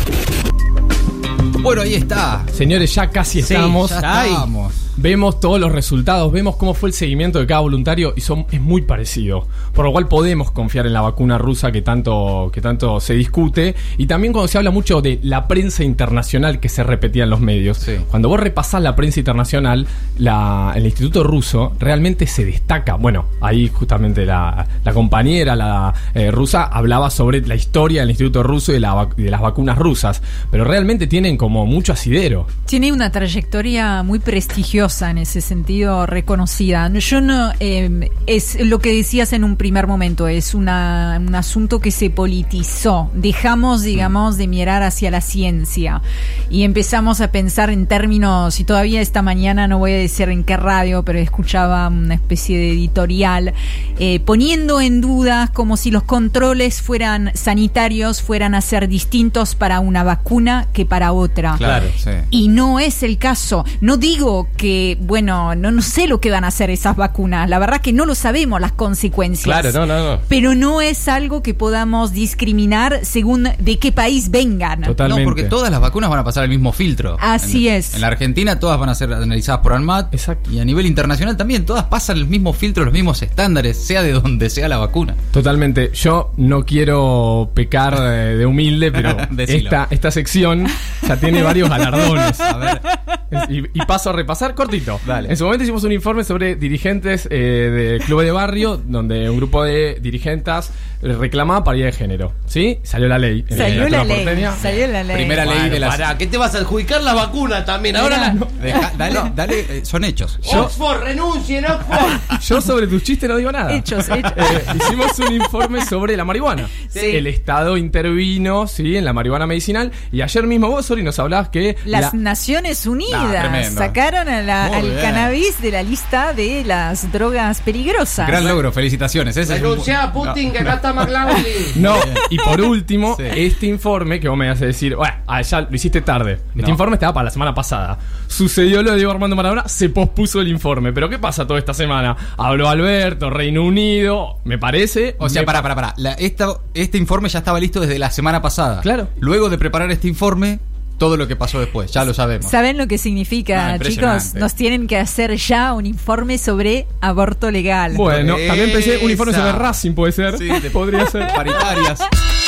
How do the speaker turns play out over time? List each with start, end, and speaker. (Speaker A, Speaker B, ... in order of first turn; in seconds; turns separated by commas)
Speaker A: 1.6-2.5, Speaker B: 2.5-4.1, Speaker C: 3.4-4.5, Speaker A: 3.4-4.8, Speaker B: 5.0-32.5, Speaker D: 32.7-61.6, Speaker A: 61.6-62.2, Speaker C: 61.6-61.9, Speaker D: 62.3-75.0, Speaker C: 69.4-70.2, Speaker B: 74.8-75.5, Speaker A: 75.0-85.2, Speaker D: 77.2-78.0, Speaker B: 80.1-80.5, Speaker B: 85.3-92.6, Speaker A: 89.0-89.8, Speaker A: 92.5-92.8, Speaker B: 93.3-104.6, Speaker A: 95.0-95.3, Speaker D: 103.5-105.5, Speaker A: 103.5-104.1, Speaker A: 104.6-106.1, Speaker C: 105.4-108.3, Speaker B: 107.9-109.3, Speaker A: 108.6-110.7, Speaker B: 110.5-110.8, Speaker C: 110.5-112.2, Speaker B: 112.1-122.2, Speaker D: 113.7-114.7, Speaker C: 116.9-117.2, Speaker D: 121.8-128.4, Speaker A: 123.1-124.0, Speaker A: 124.6-125.3, Speaker A: 128.2-130.5, Speaker C: 129.4-131.8, Speaker A: 131.3-132.2, Speaker B: 131.7-145.6, Speaker A: 133.1-133.4, Speaker A: 145.2-152.5, Speaker B: 148.8-149.1, Speaker D: 152.4-158.1, Speaker A: 153.5-154.5, Speaker B: 157.9-161.5, Speaker A: 158.1-159.7, Speaker A: 160.3-162.1